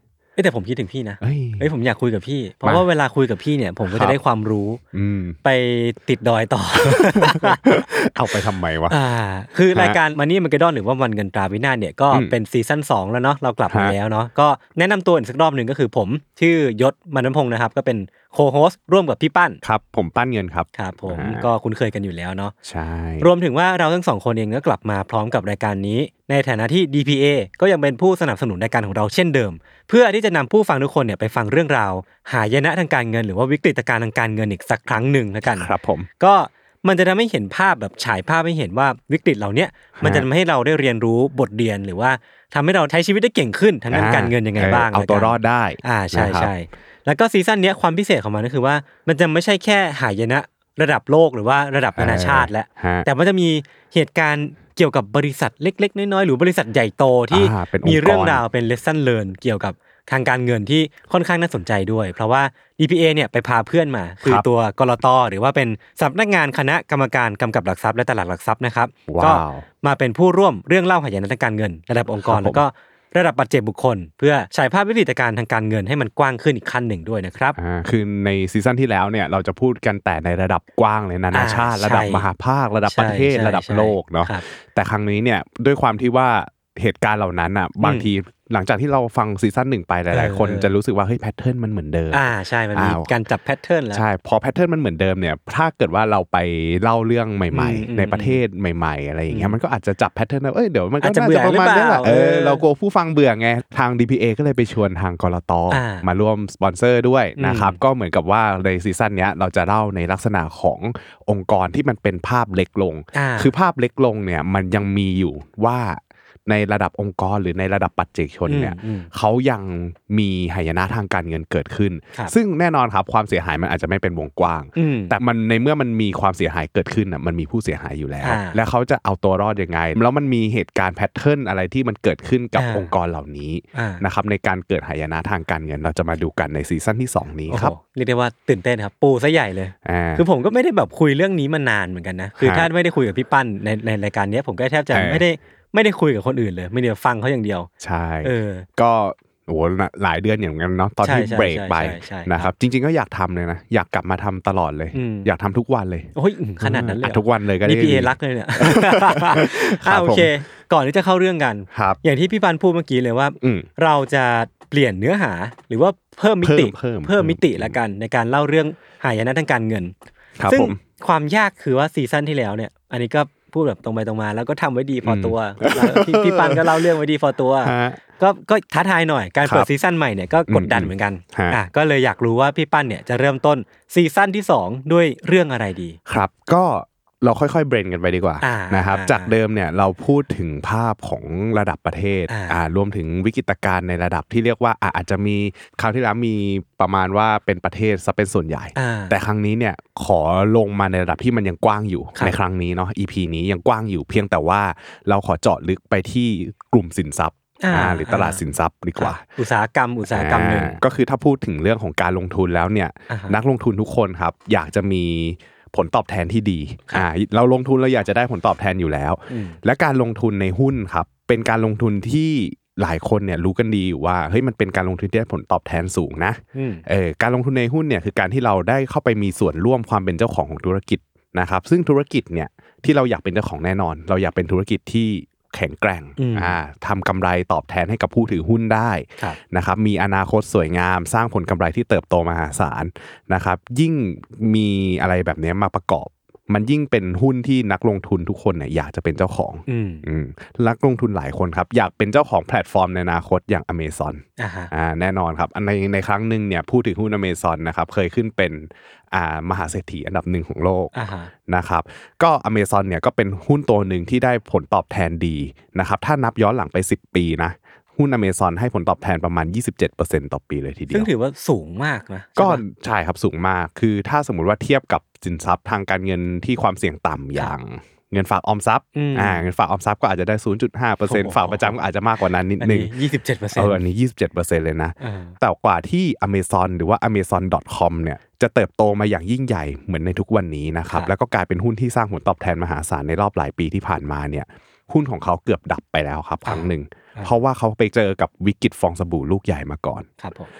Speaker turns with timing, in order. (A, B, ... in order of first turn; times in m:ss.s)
0:00.4-0:04.8 A
0:01.2-0:01.7 B
0:03.8-0:04.2 B
0:04.9-0:05.4 B
0:05.4-0:07.8 A
0:06.8-0:09.0 B
0:08.9-0:19.6 A
0:13.7-0:13.9 B
0:19.6-0:21.4 B
0:20.7-0:22.5 A
0:22.6-0:23.3 B
0:23.2-1:17.6 A
0:35.4-0:36.1 B
0:40.0-0:40.3 B
0:43.9-0:46.5 B
0:52.0-0:53.1 B
0:57.3-0:58.4 B
1:09.1-1:09.6 B
1:12.2-1:12.6 B
1:17.6-1:33.1 B
1:21.3-1:22.3 A
1:22.9-1:24.4 A
1:27.8-1:28.1 A
1:30.1-1:30.7 A
1:32.1-1:34.0 A
1:33.9-2:17.8 B
1:37.5-1:38.4 A
1:39.3-1:39.6 A
1:41.0-1:42.6 A
1:45.7-1:46.0 A
1:47.4-1:47.8 A
1:53.1-1:53.5 A
1:58.5-1:59.1 A
2:04.8-2:05.1 A
2:08.2-2:08.6 A
2:12.6-2:12.9 A
2:13.7-2:14.0 A
2:17.5-2:27.7 A
2:19.8-2:20.2 B
2:22.4-2:22.7 B
2:24.9-2:25.2 B
2:27.8-2:40.3 B
2:28.2-2:28.6 A
2:31.0-2:32.5 A
2:34.9-2:35.3 A
2:36.1-2:49.9 A
2:41.7-2:42.0 B
2:43.4-2:43.7 B
2:46.4-2:47.8 B
2:50.4-2:50.8 B
2:50.5-3:06.0 A
2:55.0-2:56.8 B
2:57.6-2:58.0 B
3:00.5-3:01.6 B
3:06.1-3:29.3 B
3:08.4-3:09.3 A
3:12.3-3:12.6 A
3:18.8-3:19.1 A
3:27.6-3:28.4 A
3:29.0-3:30.8 A
3:30.1-4:20.9 B
3:33.1-3:33.4 A
3:39.3-3:39.6 A
3:46.5-3:46.8 A
3:56.2-3:56.6 A
4:09.7-4:10.0 A
4:14.4-4:14.7 A
4:20.9-4:21.3 A
4:21.5-4:31.1 B
4:30.9-4:32.6 A
4:32.4-4:42.9 B
4:38.9-4:39.4 A
4:41.1-4:41.8 A
4:42.6-4:43.8 A
4:43.5-5:00.1 B
4:45.0-4:45.4 A
4:56.4-4:57.3 A
5:00.2-5:00.5 A